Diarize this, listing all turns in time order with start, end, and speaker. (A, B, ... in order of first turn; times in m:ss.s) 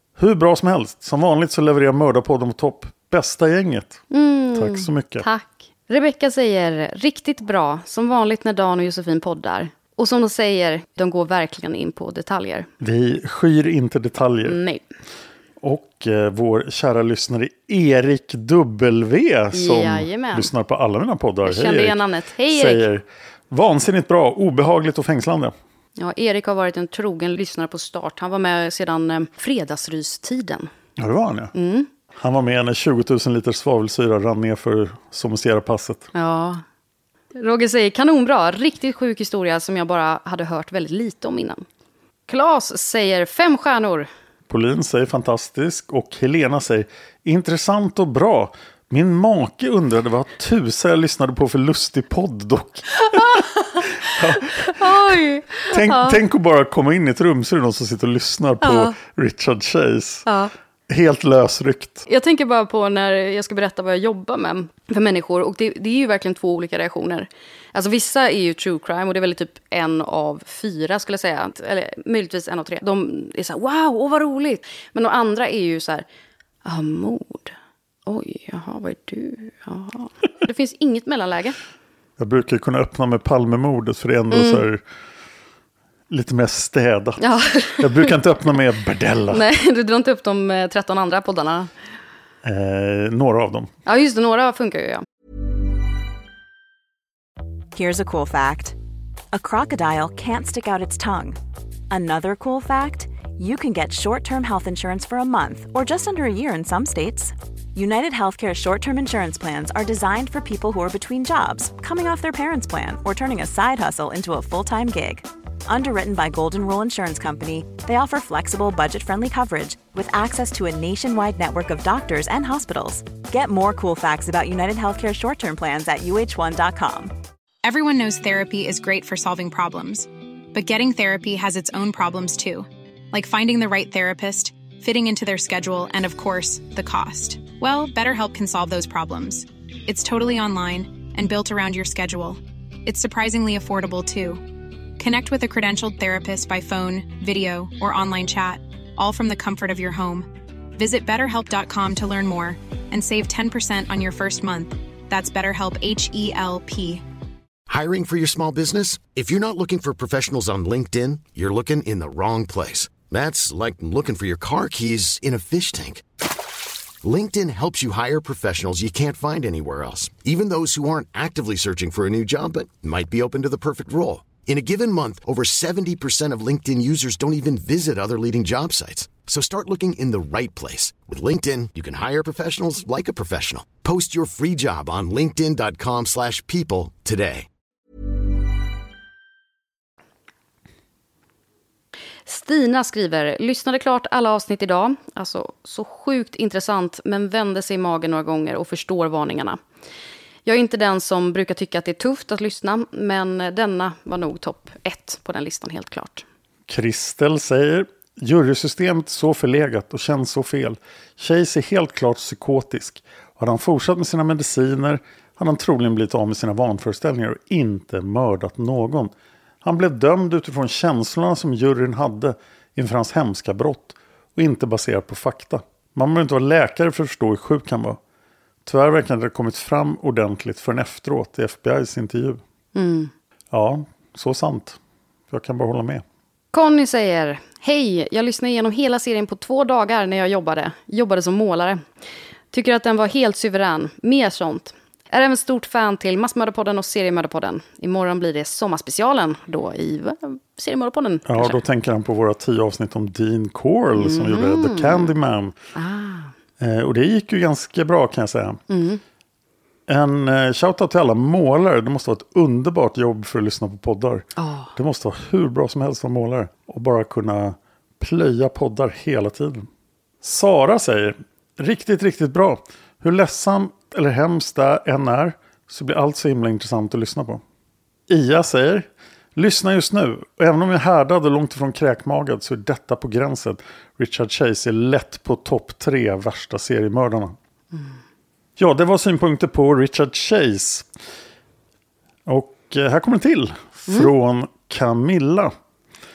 0:00.2-0:05.3 A
0:04.1-0:12.7 B
0:12.8-0:14.6 A
0:14.4-0:14.8 B
0:15.6-0:25.5 A
0:19.5-0:20.5 B
0:21.4-0:22.9 B
0:26.0-0:30.7 B
0:31.0-0:31.5 A
0:31.5-0:31.9 B
0:32.1-0:36.1 A
0:36.1-0:36.6 B
0:37.3-0:41.6 B
0:42.3-0:44.1 B
0:44.5-0:53.4 A
0:53.0-0:56.2 B
0:54.0-0:55.1 A
0:55.7-1:00.2 A
0:58.6-0:59.0 B
1:00.2-1:00.5 B
1:00.9-1:02.0 A
1:02.0-1:16.0 B
1:16.6-1:17.5 B
1:18.0-1:21.6 B
1:22.2-1:24.8 A
1:24.3-1:24.6 B
1:26.1-1:27.2 A
1:27.2-1:28.1 B
1:27.8-1:29.4 A
1:29.3-1:31.7 B
1:32.4-1:33.7 A
1:33.8-1:35.0 B
1:37.7-1:38.8 C
1:39.3-1:41.4 C
1:41.9-2:07.1 C
2:07.6-2:24.4 D
2:25.0-2:37.0 D
2:37.7-2:46.0 E
2:47.0-3:07.5 E
3:12.2-3:19.6 B
3:20.4-3:26.2 B
3:26.7-3:39.1 A
3:39.6-3:48.0 A
3:48.6-3:52.4 A
3:52.7-3:53.1 B
3:53.5-3:54.8 A
3:55.3-3:56.0 A
3:56.5-4:01.8 B
4:02.5-4:11.6 B
4:11.2-4:15.6 A
4:13.9-4:15.1 B
4:15.7-4:16.3 B
4:16.6-4:18.6 A
4:18.7-4:19.0 B
4:19.9-4:29.7 A
4:24.4-4:24.7 B
4:30.2-4:37.4 A
4:38.1-4:47.4 A
4:48.6-4:50.9 A
4:52.2-4:55.5 A